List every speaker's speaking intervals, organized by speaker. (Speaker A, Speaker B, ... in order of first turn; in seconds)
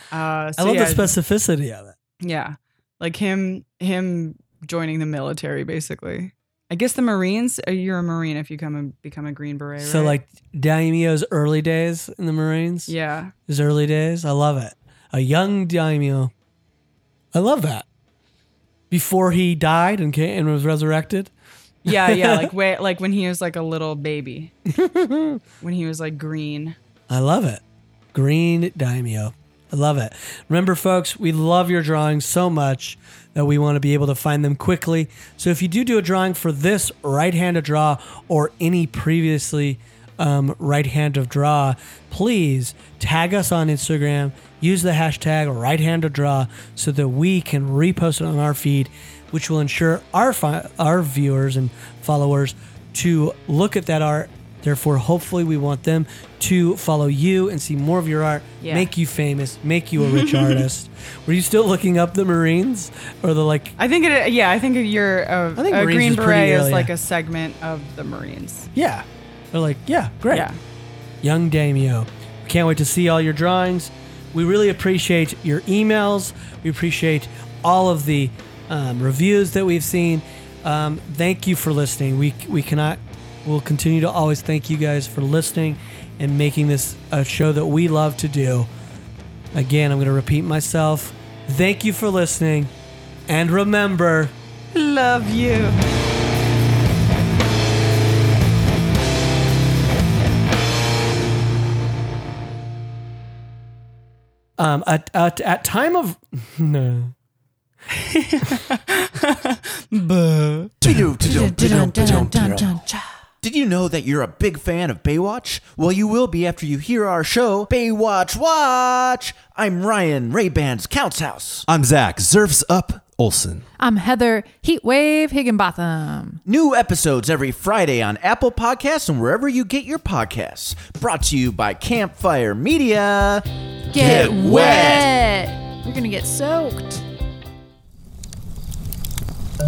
Speaker A: 0.1-1.1, 2.2-10.2, 12.9-13.3, 21.9-24.5, 25.6-26.8, 58.6-58.9, 60.0-60.6, 63.8-68.7, 70.3-70.6, 94.7-95.8, 107.9-110.7
Speaker B: 0.6-2.0, 9.8-12.9, 13.5-16.3, 17.3-17.9, 18.9-21.3, 21.9-22.5, 24.7-25.4, 27.1-27.6, 28.1-63.8, 65.6-66.9, 68.7-70.5, 71.2-88.7, 89.5-92.7, 93.3-94.3, 104.6-107.1
Speaker C: 110.8-112.9, 113.4-121.7, 126.5-135.2
Speaker D: 111.0-112.3, 121.7-123.7
Speaker E: 111.2-113.3, 123.8-126.4, 133.9-137.0